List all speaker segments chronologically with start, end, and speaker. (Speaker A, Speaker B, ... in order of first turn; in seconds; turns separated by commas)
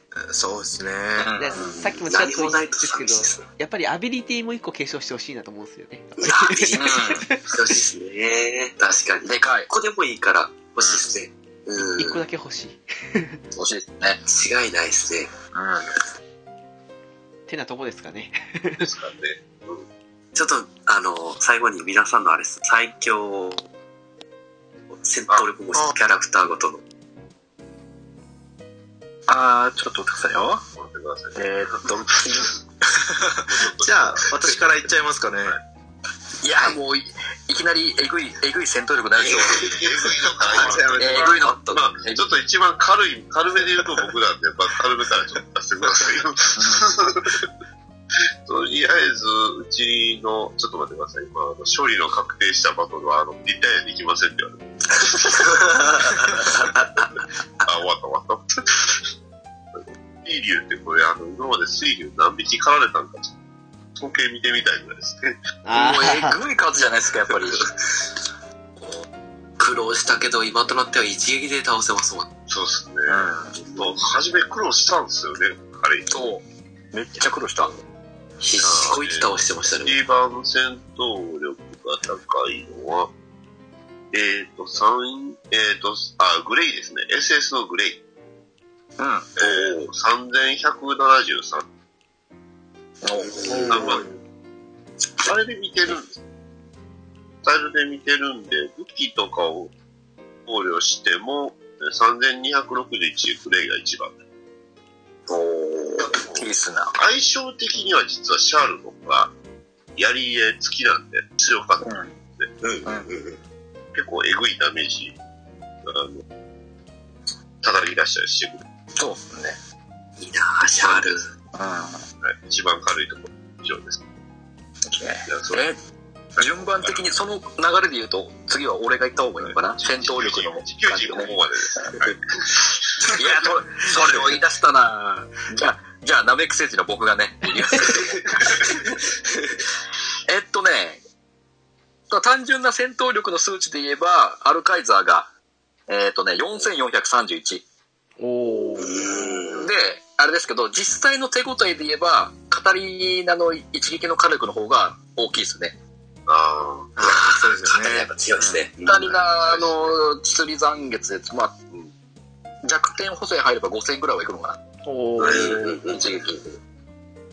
Speaker A: 0.3-1.3, Speaker B: 1.2-1.9, Speaker C: 1.4-7.8, Speaker D: 1.6-3.4, Speaker D: 6.2-12.2, Speaker B: 6.7-7.3, Speaker B: 9.2-9.7, Speaker C: 12.0-13.4, Speaker B: 13.5-14.2, Speaker D: 14.2-15.3, Speaker B: 15.5-15.9, Speaker C: 17.5-18.9, Speaker E: 18.8-19.9, Speaker D: 20.3-23.6, Speaker D: 25.0-26.8, Speaker B: 29.3-30.6, Speaker E: 30.8-32.6, Speaker B: 31.3-32.6, Speaker A: 32.9-35.6, Speaker E: 33.4-34.6, Speaker B: 36.4-39.7, Speaker D: 39.2-41.9, Speaker E: 39.3-47.4, Speaker B: 41.0-42.4, Speaker B: 46.6-46.9, Speaker E: 48.5-56.6, Speaker D: 55.2-57.1, Speaker E: 57.6-59.0, Speaker E: 59.8-63.3, Speaker E: 64.0-65.4, Speaker C: 65.6-66.4, Speaker B: 65.7-67.7, Speaker D: 69.6-72.3, Speaker E: 72.5-76.4, Speaker B: 73.1-74.0, Speaker B: 76.1-77.7, Speaker D: 78.4-80.0, Speaker E: 78.6-79.3, Speaker E: 79.8-83.1, Speaker E: 84.1-88.0, Speaker B: 89.0-89.7, Speaker E: 89.4-91.6, Speaker B: 93.0-93.8, Speaker D: 93.2-93.8, Speaker E: 93.5-94.1, Speaker C: 93.5-94.0, Speaker E: 95.2-96.2, Speaker E: 97.4-99.7, Speaker E: 100.5-104.1, Speaker E: 105.3-109.3, Speaker B: 106.2-107.0, Speaker E: 110.0-112.5, Speaker B: 111.8-112.1, Speaker D: 112.6-113.4, Speaker B: 112.8-113.1, Speaker E: 113.9-115.2, Speaker E: 115.8-116.2, Speaker E: 117.6-118.6, Speaker B: 119.0-119.6, Speaker D: 120.2-121.3, Speaker B: 120.8-122.0, Speaker E: 122.2-124.0, Speaker B: 124.9-125.8, Speaker E: 125.2-125.7, Speaker E: 126.3-127.0, Speaker B: 126.4-131.4, Speaker E: 129.4-134.3, Speaker B: 133.0-138.3, Speaker D: 137.8-139.5, Speaker B: 140.2-141.0, Speaker B: 142.1-145.3, Speaker B: 145.9-147.6, Speaker C: 148.2-149.3, Speaker D: 148.8-149.7, Speaker B: 149.6-155.8, Speaker E: 156.3-157.2, Speaker A: 157.0-158.1, Speaker D: 157.1-159.2, Speaker B: 158.4-161.5, Speaker E: 159.1-160.0, Speaker B: 162.6-164.6, Speaker C: 164.8-165.7, Speaker D: 165.2-166.5, Speaker B: 165.2-166.4